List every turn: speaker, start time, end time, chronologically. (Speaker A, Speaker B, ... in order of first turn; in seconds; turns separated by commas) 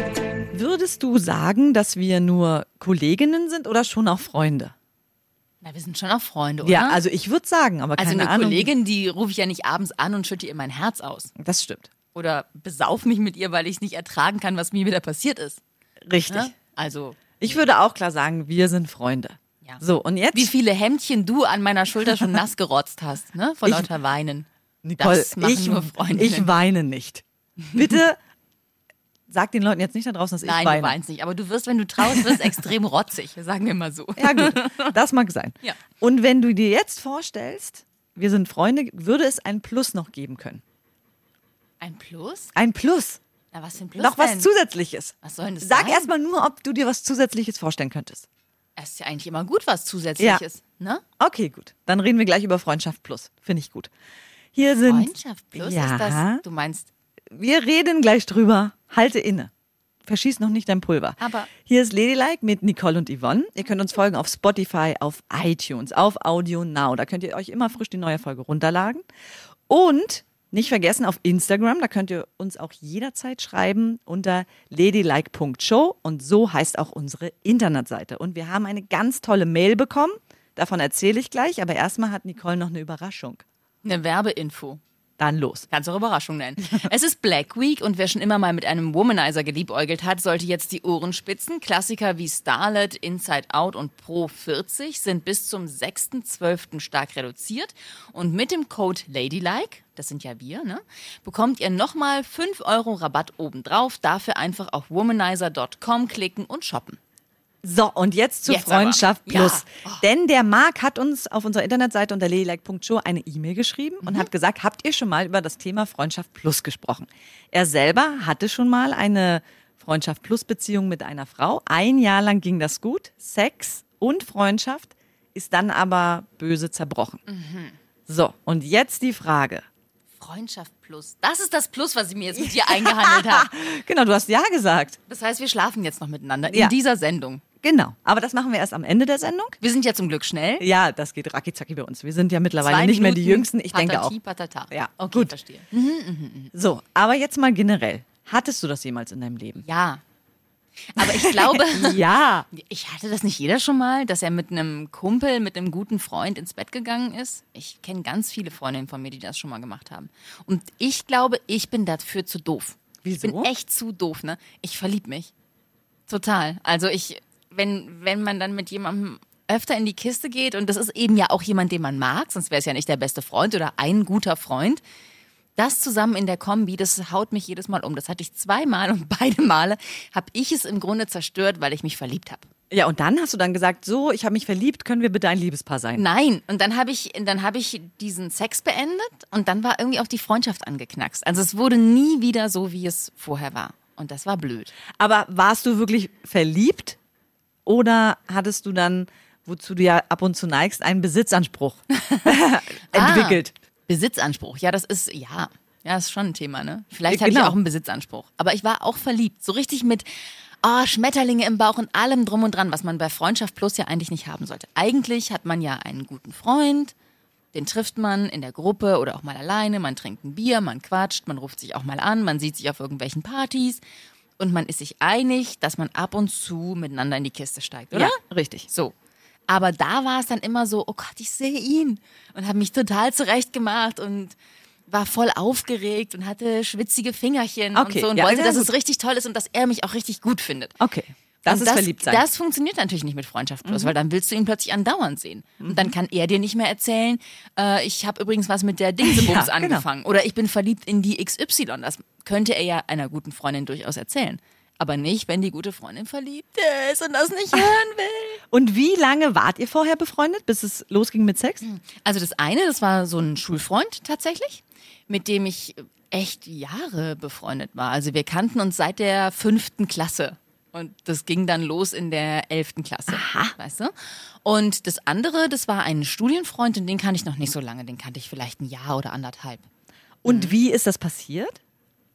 Speaker A: 0.5-4.7, Speaker B: 5.6-7.0, Speaker A: 6.6-8.7, Speaker B: 8.0-11.3, Speaker A: 11.4-11.9, Speaker B: 12.1-15.6, Speaker A: 16.0-16.5, Speaker B: 16.3-17.6, Speaker A: 17.4-20.5, Speaker B: 20.3-24.5, Speaker A: 23.6-23.9, Speaker A: 24.8-28.2, Speaker B: 25.0-26.5, Speaker A: 29.3-31.0, Speaker B: 30.4-35.0, Speaker A: 32.0-32.5, Speaker A: 34.2-40.6, Speaker B: 41.8-42.5, Speaker A: 42.5-43.2, Speaker B: 43.5-44.5, Speaker A: 44.0-48.2, Speaker B: 45.2-46.1, Speaker B: 48.8-51.0, Speaker A: 51.2-53.9, Speaker A: 54.5-56.4, Speaker B: 54.8-56.9, Speaker A: 57.3-59.5, Speaker A: 60.0-69.0, Speaker B: 61.2-61.5, Speaker A: 69.7-83.4, Speaker B: 83.8-84.8, Speaker A: 85.2-85.7, Speaker B: 85.7-107.0, Speaker A: 107.6-127.2, Speaker B: 108.5-110.0, Speaker B: 114.0-114.3, Speaker B: 127.3-127.8, Speaker A: 128.1-129.6, Speaker B: 130.2-133.5, Speaker A: 132.3-135.0, Speaker B: 135.1-137.4, Speaker A: 136.5-136.7, Speaker A: 137.6-139.6, Speaker B: 139.6-140.7, Speaker A: 140.6-144.2, Speaker B: 142.6-146.5, Speaker A: 144.7-145.3, Speaker A: 146.5-149.6, Speaker B: 149.6-150.0, Speaker B: 150.9-165.3, Speaker A: 151.0-152.5, Speaker A: 163.0-163.5, Speaker B: 166.1-174.8, Speaker B: 175.6-182.5, Speaker A: 182.7-186.0, Speaker B: 185.9-194.7, Speaker A: 195.0-197.0, Speaker A: 197.7-203.5, Speaker B: 202.0-202.3, Speaker B: 202.9-216.9, Speaker A: 207.1-207.6, Speaker B: 217.5-223.8, Speaker B: 224.4-228.2, Speaker A: 227.9-228.7, Speaker B: 228.7-228.9, Speaker B: 229.5-234.3, Speaker B: 234.9-240.7, Speaker A: 237.7-238.7, Speaker A: 240.8-242.2, Speaker B: 241.4-258.4, Speaker A: 243.6-243.9, Speaker A: 245.6-245.9, Speaker A: 249.0-249.8, Speaker A: 258.5-261.6, Speaker B: 261.6-273.9, Speaker A: 273.1-273.5, Speaker B: 274.4-279.6, Speaker A: 280.2-281.6, Speaker B: 280.2-280.5